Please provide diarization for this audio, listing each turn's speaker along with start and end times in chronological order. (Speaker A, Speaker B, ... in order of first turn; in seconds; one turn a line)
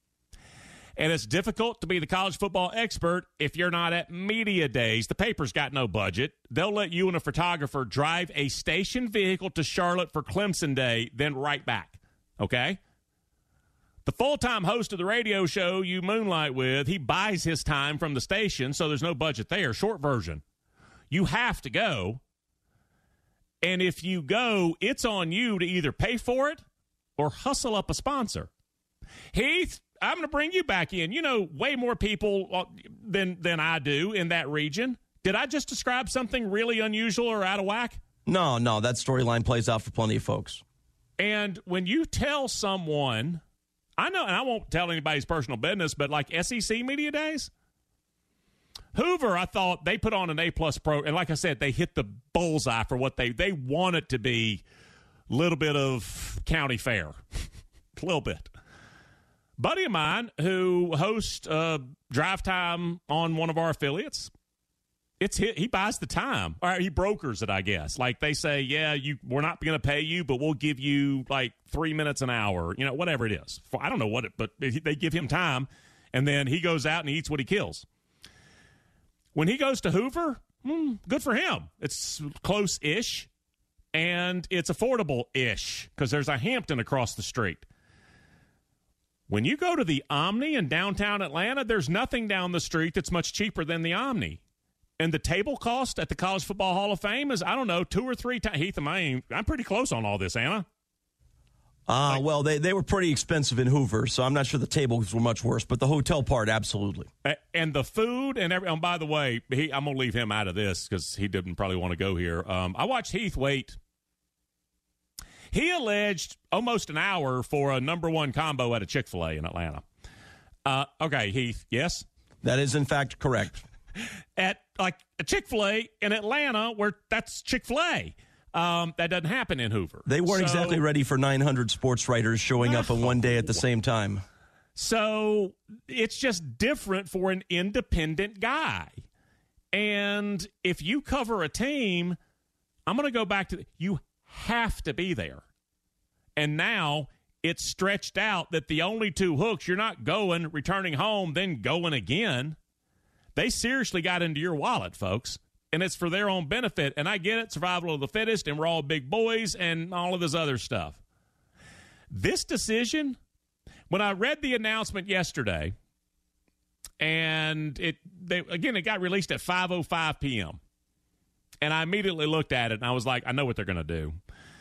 Speaker A: 1.0-12.8
Speaker A: 14.0-20.4
Speaker A: 21.1-22.2
Speaker A: 23.6-26.6
Speaker A: 27.2-28.5
Speaker A: 29.3-38.0
Speaker B: 38.2-40.6
Speaker A: 41.2-43.4
Speaker A: 44.0-47.5
Speaker A: 48.9-54.6
Speaker A: 55.3-57.2
Speaker A: 58.0-58.5
Speaker A: 59.6-64.3
Speaker A: 65.2-77.8
Speaker A: 79.3-83.3
Speaker A: 83.9-87.6
Speaker A: 89.3-94.4
Speaker A: 95.0-100.7
Speaker B: 101.9-107.1
Speaker A: 107.2-113.8
Speaker A: 115.5-119.8
Speaker A: 120.6-122.0
Speaker B: 122.4-123.6
Speaker A: 124.4-130.8
Speaker B: 130.1-134.2
Speaker A: 132.6-133.6
Speaker A: 134.8-139.0
Speaker A: 139.7-142.2
Speaker A: 142.8-145.4
Speaker A: 146.3-152.6
Speaker A: 153.3-161.0
Speaker A: 162.1-163.2
Speaker A: 163.9-165.7
Speaker A: 167.0-170.6
Speaker A: 171.6-174.2